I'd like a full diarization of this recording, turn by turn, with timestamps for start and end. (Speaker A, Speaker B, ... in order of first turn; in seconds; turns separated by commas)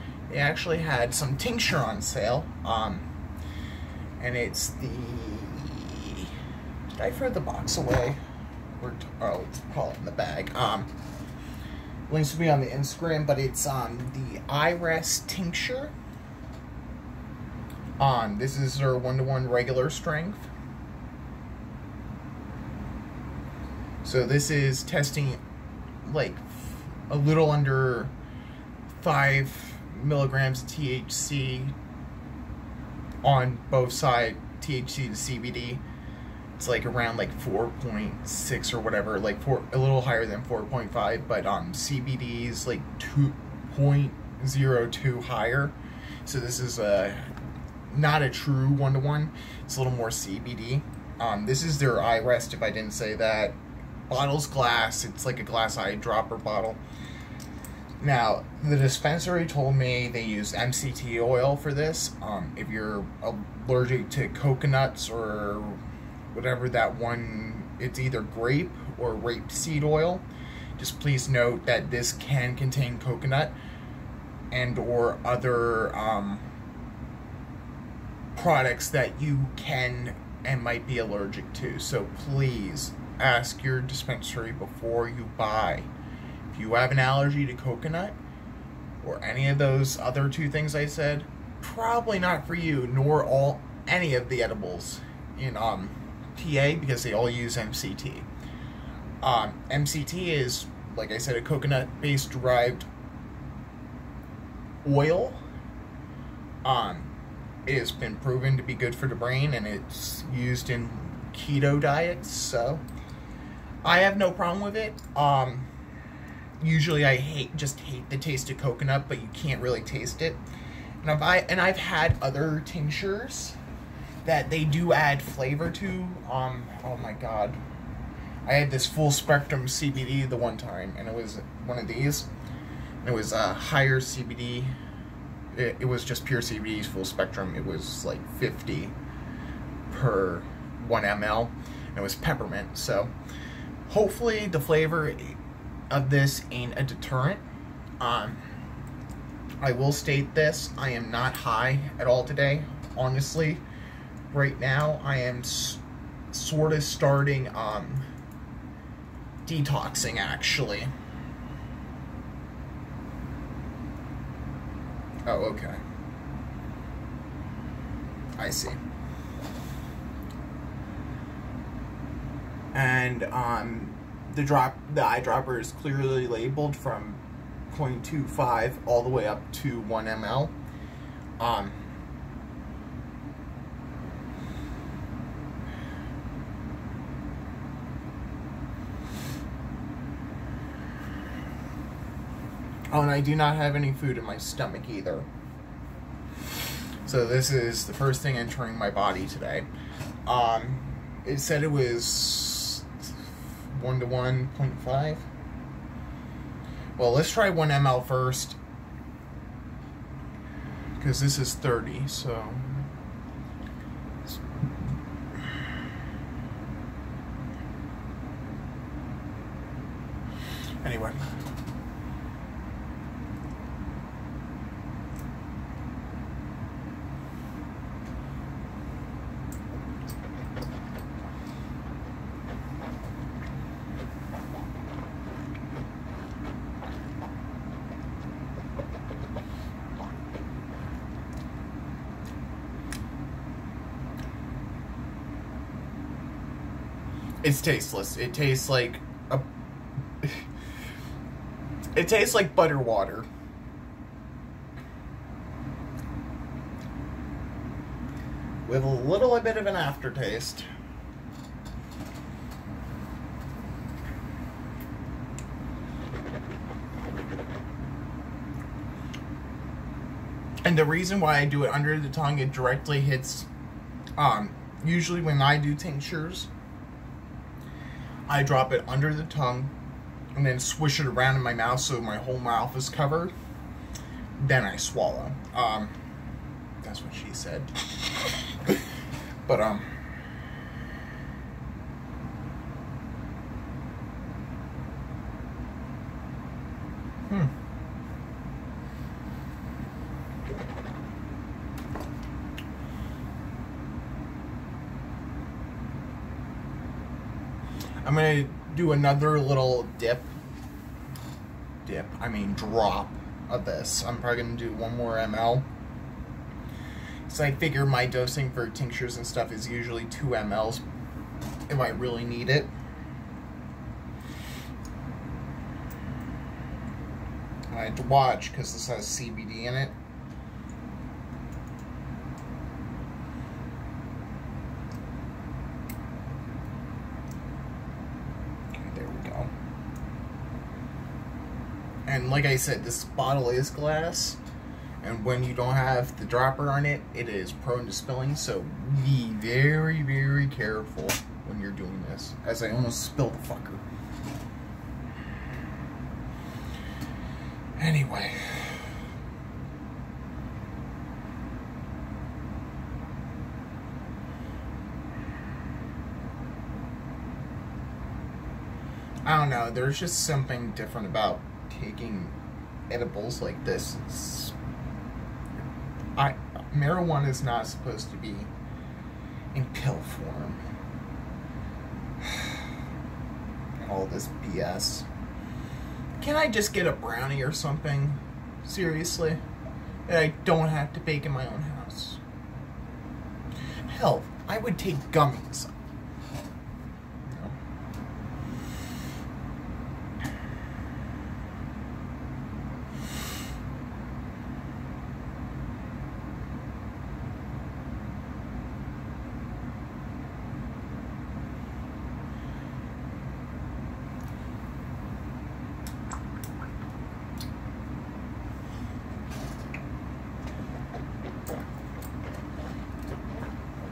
Speaker A: 0.3-3.0, Speaker A: 4.2-6.3, Speaker A: 7.0-8.2, Speaker A: 8.8-10.9, Speaker A: 12.1-15.9, Speaker A: 18.0-20.5, Speaker A: 24.0-25.4, Speaker A: 26.0-28.1, Speaker A: 28.9-31.7, Speaker A: 33.2-35.8, Speaker A: 36.6-47.3, Speaker A: 47.9-53.6, Speaker A: 54.1-56.8, Speaker A: 58.0-65.8, Speaker A: 66.3-70.2, Speaker A: 70.8-73.5, Speaker A: 74.5-76.4, Speaker A: 78.3-85.9, Speaker A: 86.5-88.2, Speaker A: 89.0-98.3, Speaker A: 99.2-102.9, Speaker A: 104.8-105.4, Speaker A: 106.6-107.1, Speaker A: 107.7-112.8, Speaker A: 113.8-115.7, Speaker A: 116.6-120.4, Speaker A: 121.0-123.6, Speaker A: 124.2-127.6, Speaker A: 128.4-132.3, Speaker A: 133.0-134.7, Speaker A: 135.5-138.9, Speaker A: 139.9-143.1, Speaker A: 143.9-145.4, Speaker A: 145.9-147.4, Speaker A: 148.0-148.4, Speaker A: 149.6-153.6, Speaker A: 154.3-158.1, Speaker A: 159.4-160.9, Speaker A: 165.2-165.8, Speaker A: 168.4-168.8, Speaker A: 172.7-180.5, Speaker A: 181.4-181.8, Speaker A: 192.9-195.3, Speaker A: 197.0-199.7, Speaker A: 200.2-203.1, Speaker A: 203.7-205.3, Speaker A: 206.9-208.6, Speaker A: 211.0-212.7, Speaker A: 220.8-221.3, Speaker A: 247.4-249.4, Speaker A: 251.9-253.3, Speaker A: 258.6-260.7, Speaker A: 270.6-273.5, Speaker A: 274.2-276.5, Speaker A: 278.3-279.7, Speaker A: 280.3-283.3, Speaker A: 284.4-285.9, Speaker A: 286.8-288.9, Speaker A: 289.4-289.9, Speaker A: 308.0-310.3, Speaker A: 311.8-315.6, Speaker A: 317.3-320.8, Speaker A: 321.7-322.7, Speaker A: 327.7-329.9, Speaker A: 338.7-339.5, Speaker A: 342.1-344.4, Speaker A: 345.0-353.8, Speaker A: 357.8-358.8, Speaker A: 369.2-372.3, Speaker A: 372.9-374.5, Speaker A: 376.2-378.5, Speaker A: 379.5-380.6, Speaker A: 382.2-382.6, Speaker A: 383.7-385.1, Speaker A: 386.2-389.4, Speaker A: 390.1-392.2, Speaker A: 393.9-395.7, Speaker A: 397.2-397.6